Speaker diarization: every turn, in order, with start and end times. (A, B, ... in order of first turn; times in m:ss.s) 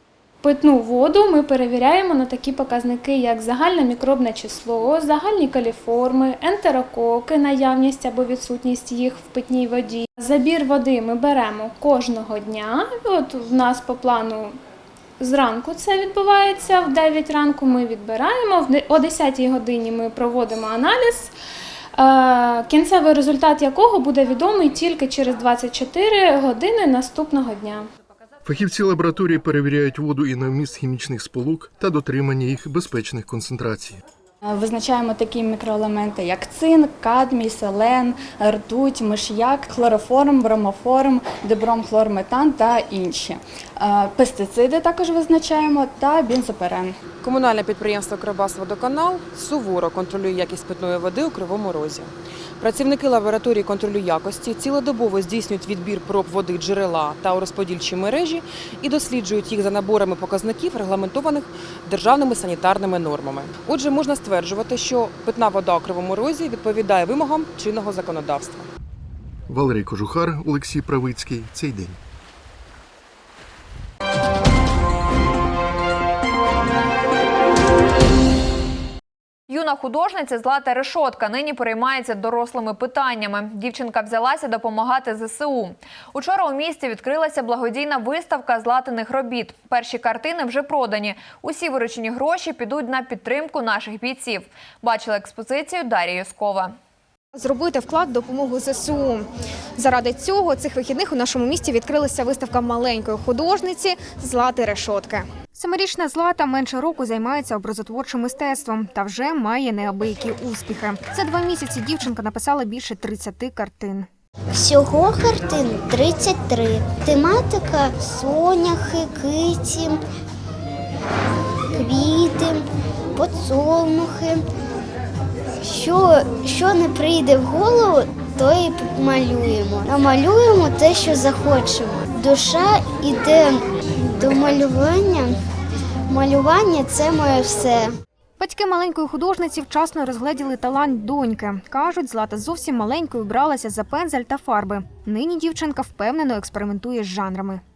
0:00.4-0:14.6 A
0:15.2-0:21.3 A
0:22.0-0:27.9 A
0:28.4-0:34.0 B
0:34.4-0:47.0 C
0:47.2-1:08.7 D
1:09.5-1:12.0 B
1:19.5-1:36.7 E
1:37.4-1:39.3 F
1:39.8-1:54.1 F
1:54.5-2:00.0 G
2:01.7-2:04.4 G
2:05.6-2:15.4 G
2:16.1-2:18.0 G
2:18.4-2:27.6 F